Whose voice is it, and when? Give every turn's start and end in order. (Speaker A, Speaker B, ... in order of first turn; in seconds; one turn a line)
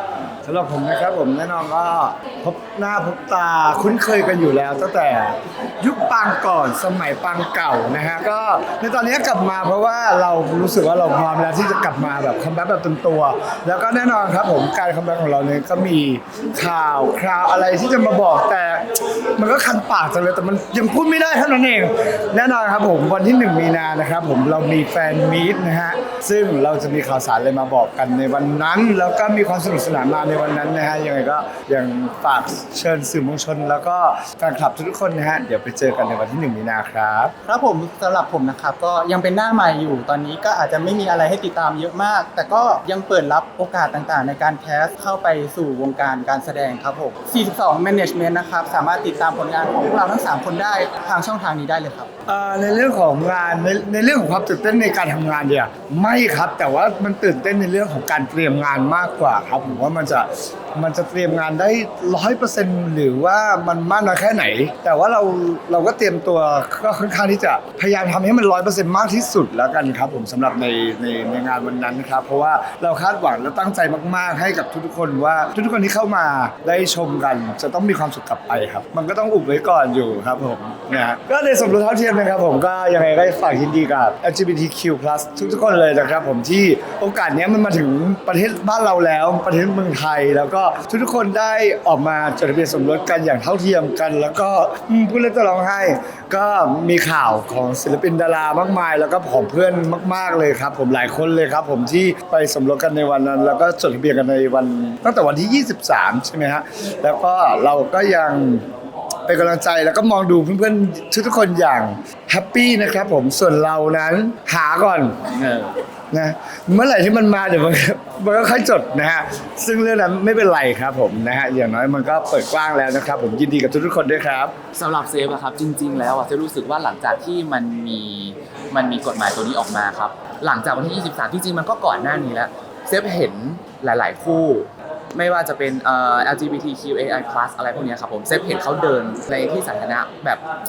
Speaker A: 0.5-37.3
Speaker B: 37.5-52.1
Speaker A: 52.3-108.7
Speaker A: 109.3-115.2
Speaker C: 115.3-115.8
Speaker A: 116.1-124.5
Speaker C: 124.7-140.4